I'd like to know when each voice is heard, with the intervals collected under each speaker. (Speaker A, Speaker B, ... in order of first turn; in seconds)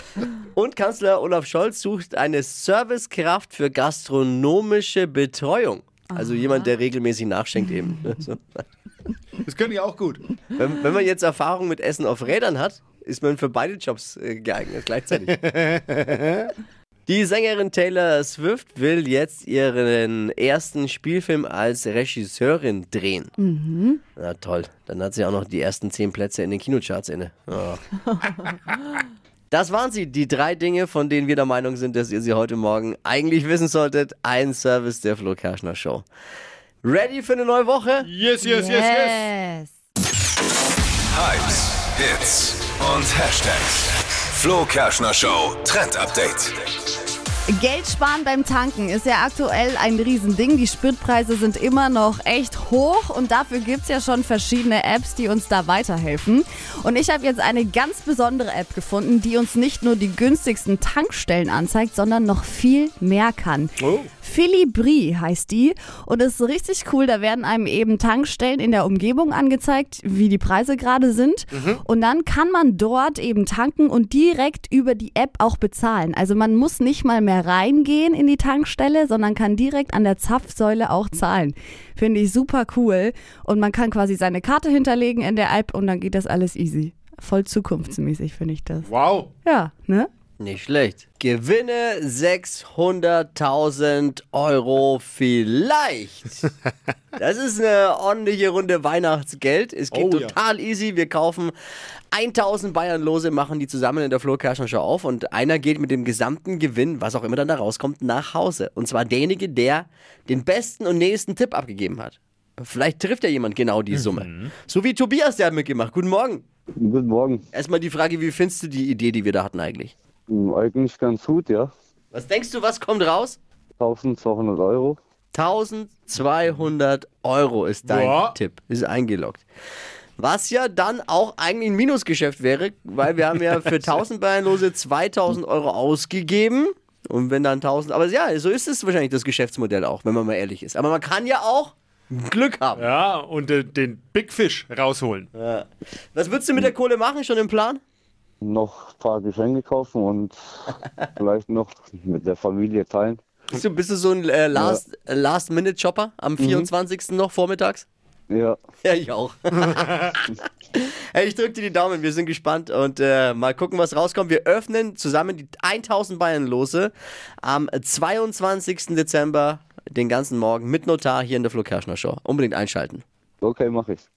Speaker A: 0.5-8.6, 10.6-15.4, 17.1-23.3, 24.1-27.8, 29.5-36.0, 36.8-38.1, 90.4-96.5, 97.2-101.5, 102.1-116.4, 117.5-119.9, 122.1-123.4, 125.3-129.4, 130.2-142.9, 145.3-147.8, 153.5-157.9, 158.8-166.9, 167.4-173.0
Speaker B: 9.4-10.2, 15.3-16.5, 38.0-39.3, 63.8-64.1, 71.5-71.8, 88.8-89.3, 99.9-100.3, 113.9-114.5, 127.8-128.3, 133.7-134.0, 142.7-145.3
Speaker C: 23.4-24.0, 28.0-29.0, 38.4-39.7, 47.5-88.9, 89.4-90.1
Speaker D: 41.1-46.6
Speaker E: 116.8-117.4, 120.3-121.7, 123.8-125.0, 148.4-153.2, 154.5-154.8, 156.4-156.7, 158.3-158.6, 173.4-174.0